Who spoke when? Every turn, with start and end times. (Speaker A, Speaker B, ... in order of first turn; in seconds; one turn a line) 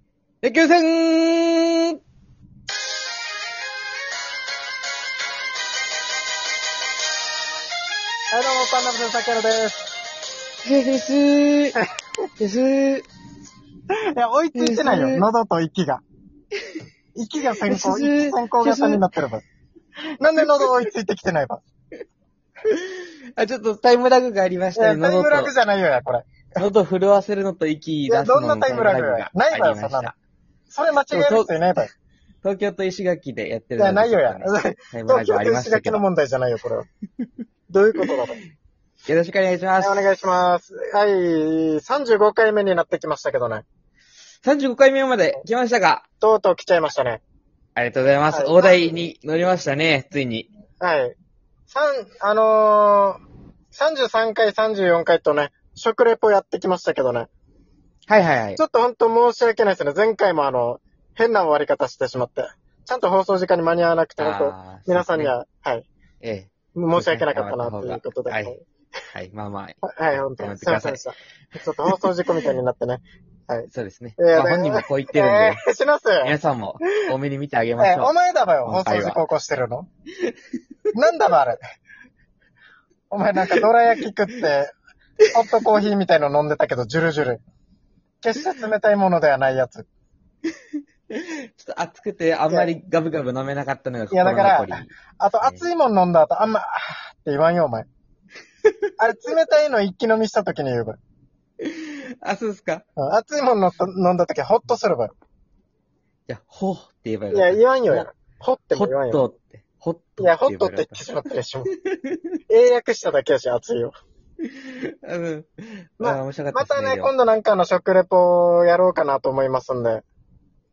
Speaker A: 0.4-2.0
Speaker B: 8.3-9.9
Speaker A: 10.7-11.8
Speaker A: 12.4-13.1
Speaker B: 14.2-16.0
Speaker A: 14.6-15.2
Speaker B: 17.1-19.4
Speaker A: 17.7-19.1
Speaker B: 20.2-21.6
Speaker A: 20.4-20.7
Speaker A: 22.6-25.5
Speaker B: 24.8-26.6
Speaker A: 26.6-30.1
Speaker B: 28.1-30.1
Speaker B: 30.7-31.9
Speaker A: 31.1-31.5
Speaker A: 32.4-36.0
Speaker B: 33.8-36.9
Speaker B: 37.7-38.4
Speaker A: 39.1-40.0
Speaker B: 39.8-43.6
Speaker A: 44.4-46.0
Speaker B: 46.2-47.2
Speaker A: 47.8-50.5
Speaker B: 48.3-48.9
Speaker B: 50.8-51.1
Speaker B: 51.7-53.2
Speaker B: 53.7-57.3
Speaker A: 58.1-58.6
Speaker B: 58.6-65.9
Speaker A: 64.2-65.3
Speaker A: 66.2-68.6
Speaker B: 66.8-68.6
Speaker A: 69.1-71.0
Speaker B: 69.8-76.3
Speaker A: 71.9-72.5
Speaker A: 73.7-75.6
Speaker A: 76.2-78.1
Speaker B: 77.8-79.9
Speaker A: 78.7-79.2
Speaker B: 80.9-81.6
Speaker B: 83.1-84.7
Speaker B: 85.3-87.4
Speaker B: 88.2-89.9
Speaker A: 91.1-95.7
Speaker B: 94.1-97.9
Speaker B: 99.0-101.0
Speaker A: 101.6-102.8
Speaker B: 103.0-105.1
Speaker A: 106.3-108.1
Speaker B: 107.3-109.2
Speaker A: 108.7-111.0
Speaker B: 110.2-111.7
Speaker A: 111.8-112.3
Speaker B: 112.5-113.9
Speaker A: 114.4-117.1
Speaker B: 116.0-120.0